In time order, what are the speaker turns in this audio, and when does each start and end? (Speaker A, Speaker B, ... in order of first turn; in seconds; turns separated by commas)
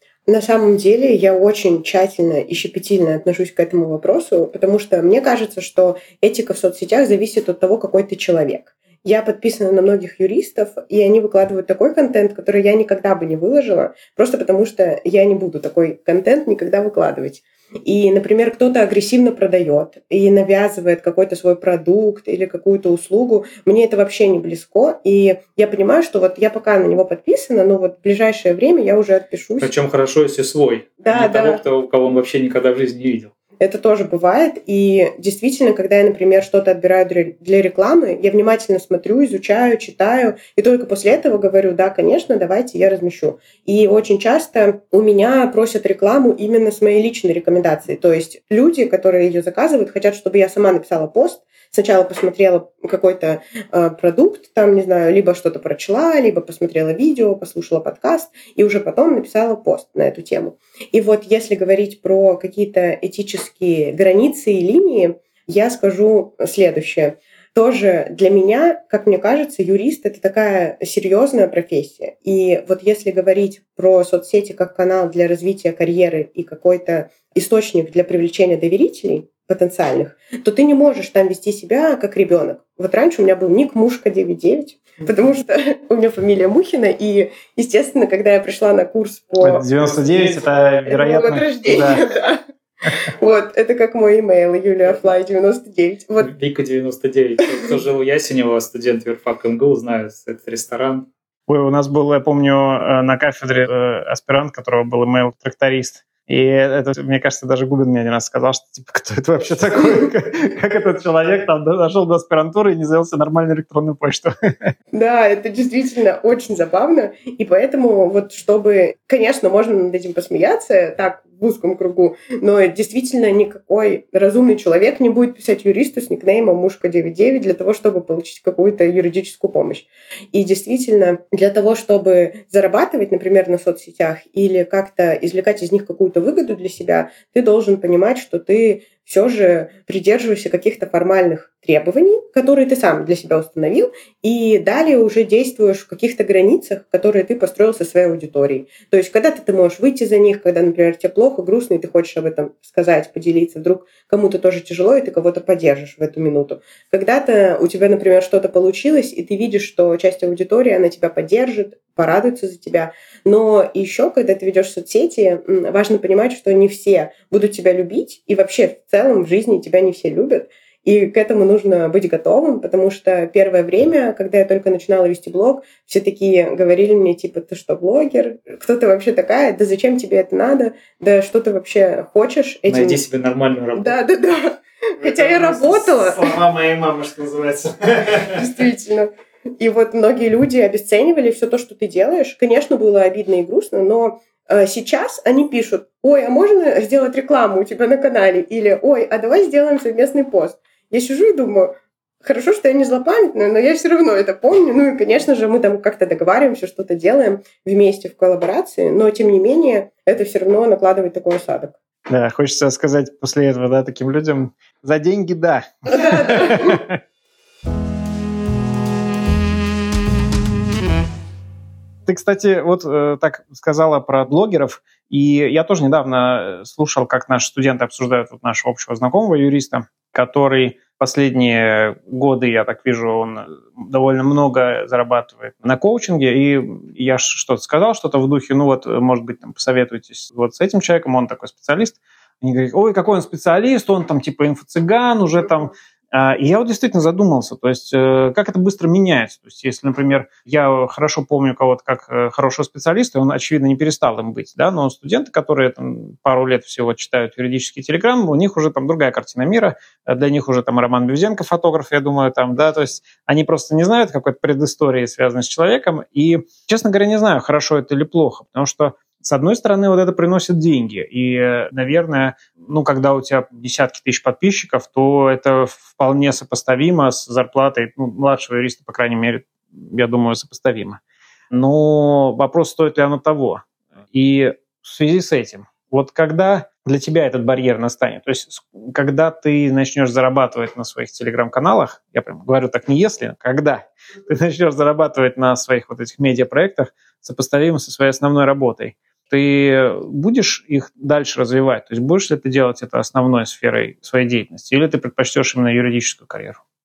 Speaker A: 0.3-29.7, Speaker B: 29.6-33.3, Speaker A: 31.0-31.6, Speaker A: 33.6-96.3, Speaker C: 89.4-92.0, Speaker B: 96.2-101.1, Speaker C: 101.5-114.7, Speaker A: 114.9-183.0, Speaker B: 182.7-184.0, Speaker A: 183.8-186.3, Speaker C: 185.0-188.5, Speaker A: 188.3-211.7, Speaker C: 212.1-217.0, Speaker A: 215.9-216.8, Speaker C: 222.1-281.0, Speaker C: 281.5-306.6